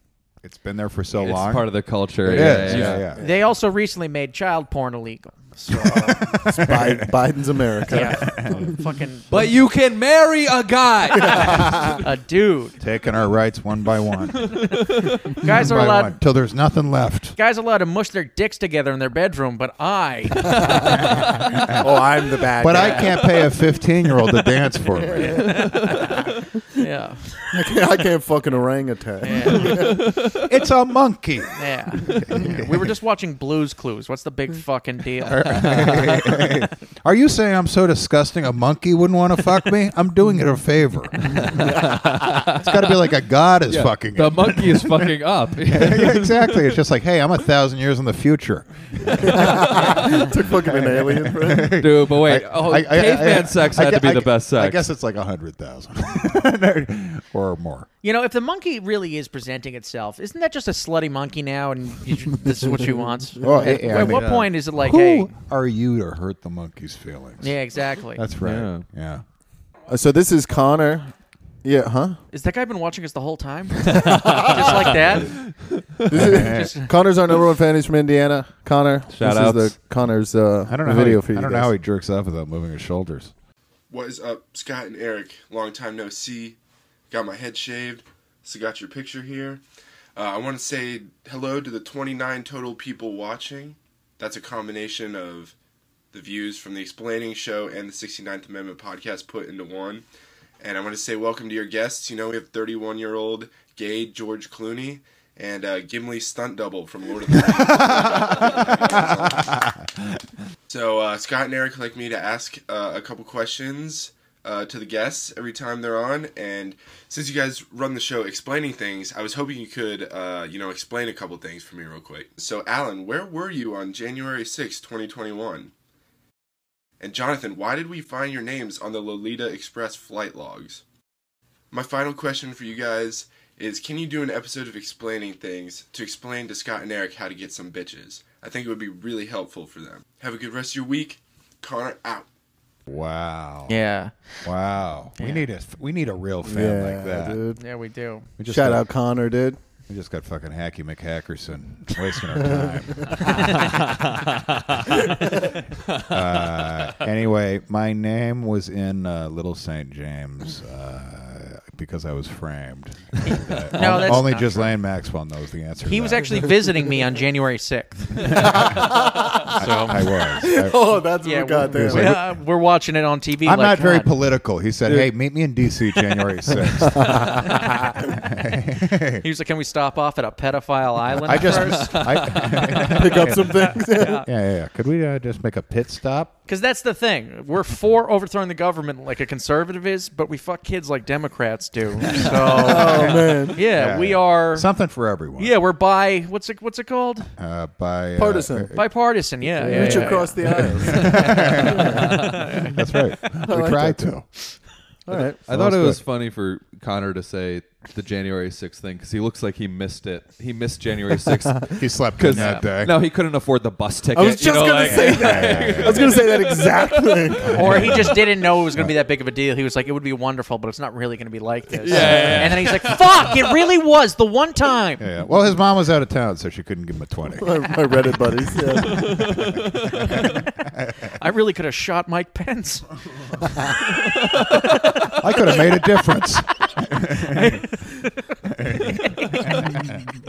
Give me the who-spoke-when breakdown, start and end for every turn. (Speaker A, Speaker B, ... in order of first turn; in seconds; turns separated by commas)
Speaker A: 0.4-1.7, Speaker B: 1.2-3.1, Speaker A: 2.2-3.2, Speaker C: 2.2-3.4, Speaker D: 3.1-6.4, Speaker A: 5.7-7.2, Speaker C: 6.1-8.8, Speaker D: 7.9-9.5, Speaker A: 7.9-8.7, Speaker B: 9.3-11.9, Speaker D: 11.1-12.8, Speaker A: 12.8-17.4, Speaker D: 14.8-16.2, Speaker D: 17.4-21.3, Speaker A: 21.0-22.0, Speaker C: 21.8-23.4, Speaker A: 22.5-25.6, Speaker D: 22.7-23.1, Speaker D: 25.1-27.5, Speaker B: 25.4-26.2, Speaker C: 27.5-30.1, Speaker D: 29.2-29.9, Speaker B: 29.6-30.4, Speaker A: 30.3-32.9, Speaker D: 31.6-35.9, Speaker A: 35.3-57.9, Speaker B: 43.7-46.7, Speaker B: 49.2-50.2, Speaker C: 49.3-51.8, Speaker B: 51.8-54.9, Speaker D: 58.0-65.3, Speaker A: 63.4-67.6, Speaker C: 63.4-63.8, Speaker B: 64.0-64.5, Speaker D: 67.4-68.3, Speaker A: 68.2-69.2, Speaker B: 68.4-68.8, Speaker C: 69.9-72.2, Speaker D: 72.3-75.4, Speaker B: 74.2-74.7, Speaker C: 74.2-74.9, Speaker B: 75.2-75.8, Speaker C: 76.0-81.7, Speaker A: 76.1-76.7, Speaker D: 76.3-76.9, Speaker B: 79.1-79.7, Speaker A: 80.7-83.3, Speaker E: 83.9-86.6, Speaker E: 87.1-89.6, Speaker E: 90.1-95.5, Speaker E: 96.1-100.0, Speaker E: 100.6-109.5, Speaker A: 107.3-110.2, Speaker E: 110.7-125.7, Speaker E: 127.0-130.8, Speaker E: 131.7-142.3, Speaker A: 142.9-143.7, Speaker D: 143.7-144.5, Speaker A: 144.4-147.4, Speaker D: 145.2-145.4, Speaker C: 146.4-147.6, Speaker D: 147.6-148.3, Speaker A: 148.4-148.8, Speaker C: 148.5-149.6, Speaker A: 149.9-153.8, Speaker C: 152.4-153.5, Speaker A: 156.0-166.5, Speaker D: 163.3-164.8, Speaker D: 165.8-170.1, Speaker A: 168.2-169.0, Speaker C: 168.4-172.2, Speaker A: 169.6-170.8, Speaker D: 171.2-174.1, Speaker A: 171.7-172.4, Speaker A: 173.4-179.2, Speaker C: 176.6-177.9, Speaker D: 177.5-177.8, Speaker D: 179.2-184.3, Speaker A: 181.2-186.3, Speaker B: 181.6-182.6, Speaker C: 182.8-184.2, Speaker D: 186.5-194.7, Speaker C: 192.4-193.6, Speaker A: 193.6-195.5, Speaker D: 195.4-197.3, Speaker A: 197.4-198.7, Speaker C: 198.2-198.9, Speaker D: 198.7-203.0, Speaker C: 199.6-202.7, Speaker B: 199.7-200.1, Speaker A: 199.7-204.3, Speaker B: 201.9-202.4, Speaker C: 203.5-204.2, Speaker C: 205.1-205.4, Speaker B: 205.1-216.9, Speaker A: 205.5-206.0, Speaker A: 211.7-212.9, Speaker D: 212.3-212.7, Speaker C: 214.1-218.1, Speaker A: 214.8-216.3, Speaker A: 217.3-218.2, Speaker D: 217.5-225.1, Speaker B: 221.8-222.8, Speaker A: 221.9-222.9, Speaker C: 222.0-222.4, Speaker A: 225.0-227.5, Speaker C: 227.3-229.2, Speaker B: 228.7-230.2, Speaker D: 230.0-230.5, Speaker A: 230.0-231.1, Speaker D: 231.2-232.9, Speaker D: 234.5-235.8, Speaker A: 235.0-237.6, Speaker D: 237.2-238.1, Speaker A: 238.4-240.1, Speaker D: 238.8-240.0